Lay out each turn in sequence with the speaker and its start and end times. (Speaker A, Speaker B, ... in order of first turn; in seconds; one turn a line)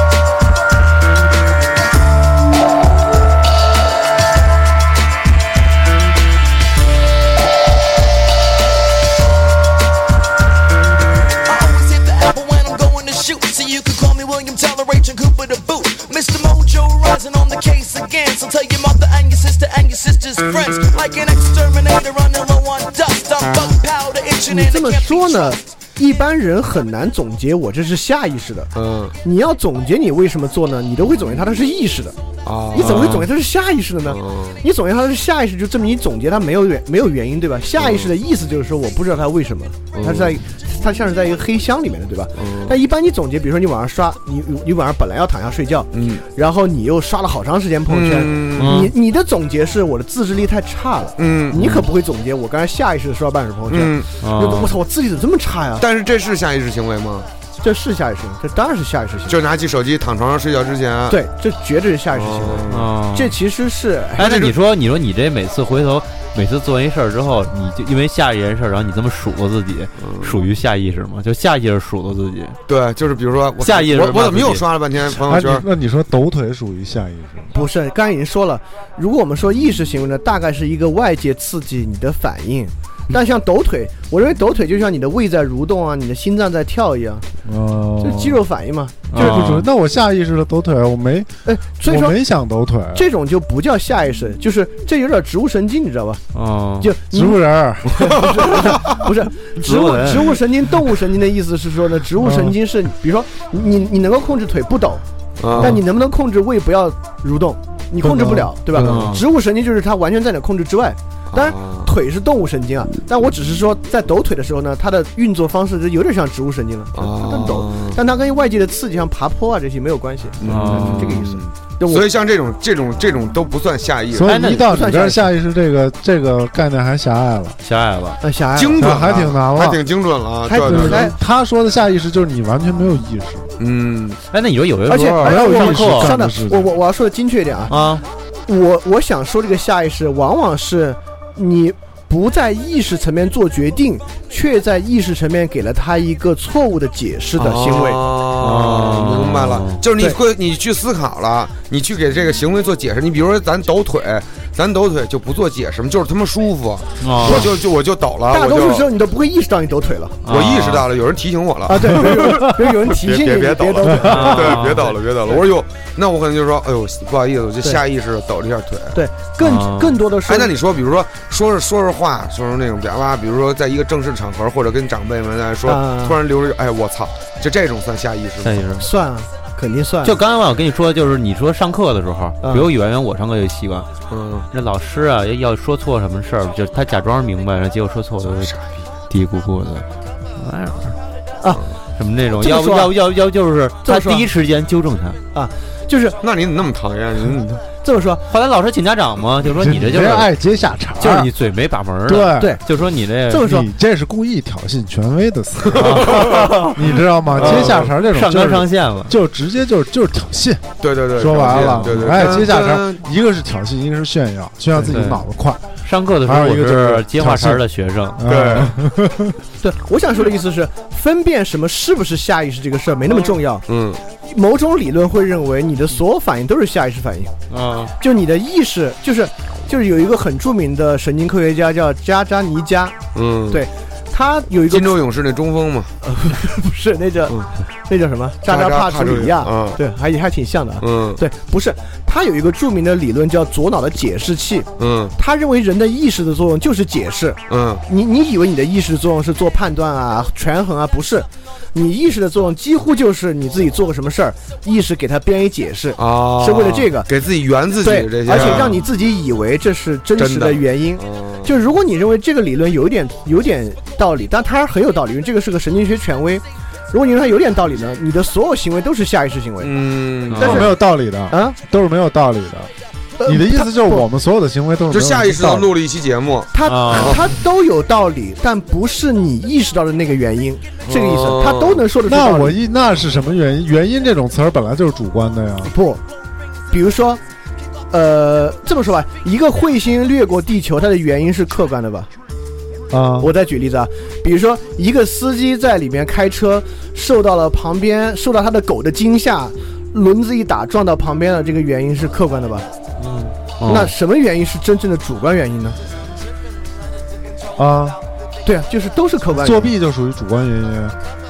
Speaker A: 11.4-25.6
Speaker B: 24.5-32.2
Speaker C: 28.7-29.1
Speaker C: 32.4-33.3
Speaker B: 32.7-55.8
Speaker D: 32.8-33.2
Speaker C: 34.0-34.6
Speaker C: 37.8-38.1
Speaker C: 39.9-40.4
Speaker C: 42.4-42.8
Speaker C: 45.9-46.2
Speaker C: 47.9-48.9
Speaker D: 48.6-48.9
Speaker C: 51.2-51.8
Speaker D: 51.5-51.9
Speaker C: 53.7-54.1
Speaker D: 54.2-54.7
Speaker C: 55.8-57.3
Speaker B: 57.6-59.4
Speaker C: 59.2-61.2
Speaker B: 61.1-64.4
Speaker C: 62.1-62.9
Speaker D: 62.7-63.3
Speaker D: 64.2-72.6
Speaker C: 64.2-64.5
Speaker C: 70.0-70.4
Speaker C: 72.7-75.7
Speaker D: 73.6-74.7
Speaker E: 75.1-77.5
Speaker B: 77.5-87.2
Speaker E: 87.4-88.4
Speaker B: 88.0-89.6
Speaker D: 89.1-89.7
Speaker E: 89.1-93.0
Speaker B: 91.4-92.2
Speaker B: 92.9-96.2
Speaker D: 96.3-96.9
Speaker B: 96.8-105.0
Speaker E: 97.1-98.2
Speaker D: 99.6-100.4
Speaker E: 102.2-102.5
Speaker C: 105.4-105.8
Speaker B: 105.5-122.1
Speaker E: 108.1-108.5
Speaker C: 108.7-109.2
Speaker D: 108.7-109.2
Speaker C: 111.3-111.9
Speaker C: 116.9-118.0
Speaker C: 120.4-124.4
Speaker D: 120.4-121.2
Speaker E: 124.1-127.6
Speaker D: 124.2-124.7
Speaker B: 124.4-125.3
Speaker D: 127.6-128.2
Speaker B: 128.2-129.3
Speaker C: 128.5-131.1
Speaker E: 128.8-129.8
Speaker B: 130.4-131.1
Speaker E: 130.5-133.5
Speaker C: 133.6-134.2
Speaker D: 134.3-136.1
Speaker B: 134.9-137.8
Speaker E: 135.2-136.7
Speaker D: 137.7-138.0
Speaker B: 138.5-148.0
Speaker C: 147.4-158.9
Speaker D: 148.4-149.8
Speaker D: 157.0-157.5
Speaker B: 157.2-157.5
Speaker B: 158.3-160.2
Speaker D: 160.2-160.8
Speaker C: 160.3-169.0
Speaker B: 161.7-165.4
Speaker E: 163.9-164.2
Speaker D: 164.1-164.9
Speaker B: 168.9-170.5
Speaker D: 169.4-170.0
Speaker C: 170.2-178.6
Speaker B: 175.7-176.2
Speaker D: 178.4-178.9
Speaker B: 178.8-180.2
Speaker D: 180.0-183.9
Speaker B: 182.4-182.7
Speaker C: 184.1-184.5
Speaker D: 184.5-188.5
Speaker C: 188.4-188.8
Speaker D: 189.1-189.8
Speaker D: 190.4-191.0
Speaker D: 191.9-195.2
Speaker B: 192.3-192.9
Speaker B: 193.8-194.3
Speaker B: 195.3-196.2
Speaker C: 196.2-197.6
Speaker B: 197.8-198.2
Speaker D: 198.3-200.3
Speaker E: 199.5-201.3
Speaker D: 201.0-203.5
Speaker E: 202.1-202.6
Speaker B: 202.3-202.6
Speaker B: 203.3-203.7
Speaker E: 203.4-215.7
Speaker C: 205.7-206.6
Speaker D: 205.8-209.1
Speaker C: 207.4-207.9
Speaker C: 210.8-213.0
Speaker D: 211.7-212.1
Speaker D: 214.8-215.2
Speaker D: 215.8-218.3
Speaker E: 216.2-217.6
Speaker E: 218.2-219.4
Speaker C: 218.2-218.8
Speaker B: 219.6-223.6
Speaker C: 223.7-224.0
Speaker B: 224.2-227.3
Speaker D: 227.5-227.9
Speaker B: 228.0-233.0
Speaker C: 233.1-233.6
Speaker B: 233.5-235.0
Speaker C: 234.7-235.9
Speaker B: 236.0-257.1
Speaker C: 238.4-239.8
Speaker C: 240.8-241.2
Speaker C: 244.8-245.1
Speaker C: 247.5-247.8
Speaker C: 256.0-258.8
Speaker B: 257.8-270.7
Speaker C: 260.2-261.5
Speaker C: 269.6-270.7
Speaker D: 270.3-270.6
Speaker E: 270.4-272.7
Speaker B: 271.3-271.6
Speaker B: 273.2-274.1
Speaker E: 273.2-275.7
Speaker C: 274.9-277.3
Speaker B: 276.5-282.6
Speaker D: 276.6-277.2
Speaker C: 280.8-281.8
Speaker E: 282.0-285.7
Speaker B: 285.6-286.0
Speaker B: 286.7-287.2
Speaker B: 287.9-292.1
Speaker E: 292.9-293.3
Speaker B: 293.2-302.7
Speaker D: 303.0-303.9
Speaker B: 303.6-305.8
Speaker E: 307.6-308.0
Speaker B: 308.4-309.7
Speaker E: 309.3-311.0